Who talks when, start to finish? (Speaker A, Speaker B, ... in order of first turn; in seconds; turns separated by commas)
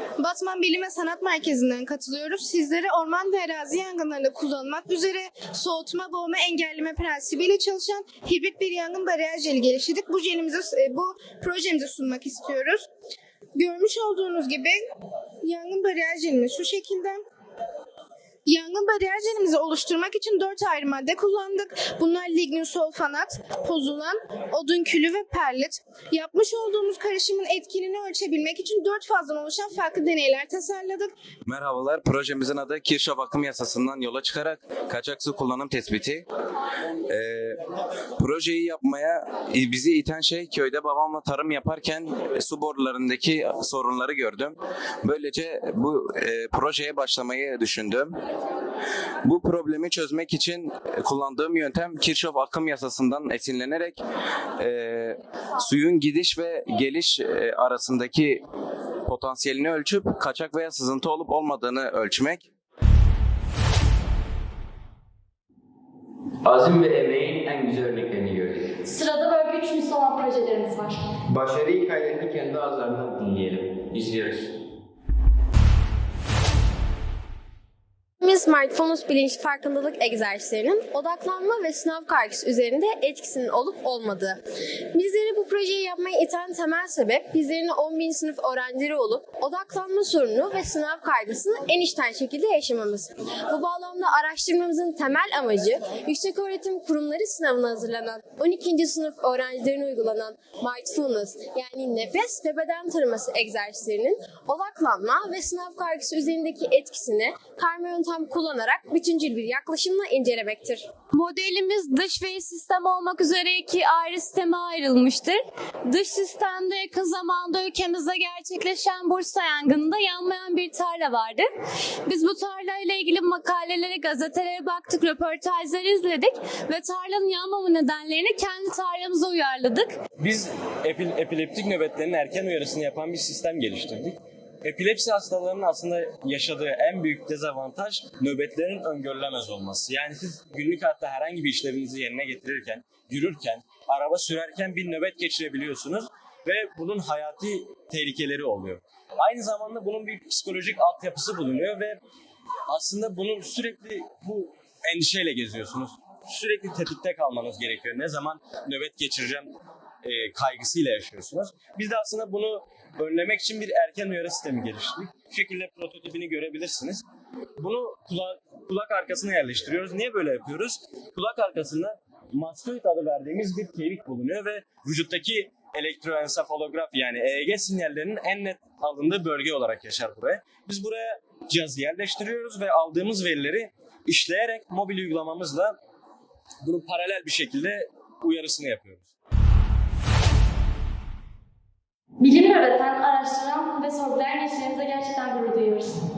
Speaker A: 0.2-12.9, Speaker A: 13.5-14.8, Speaker A: 15.4-17.2, Speaker A: 18.4-31.1, Speaker B: 31.4-36.2, Speaker B: 37.1-37.6, Speaker B: 38.2-48.1, Speaker B: 49.2-54.0, Speaker B: 54.6-58.4, Speaker B: 59.1-62.5, Speaker C: 66.4-68.7, Speaker D: 68.8-71.0, Speaker C: 71.3-74.5, Speaker E: 78.2-84.4, Speaker E: 84.9-110.9, Speaker F: 111.1-121.4, Speaker F: 122.1-129.9, Speaker G: 130.2-152.0, Speaker G: 152.7-159.5, Speaker G: 160.0-167.0, Speaker G: 167.6-185.7, Speaker G: 186.6-189.1, Speaker D: 192.2-196.0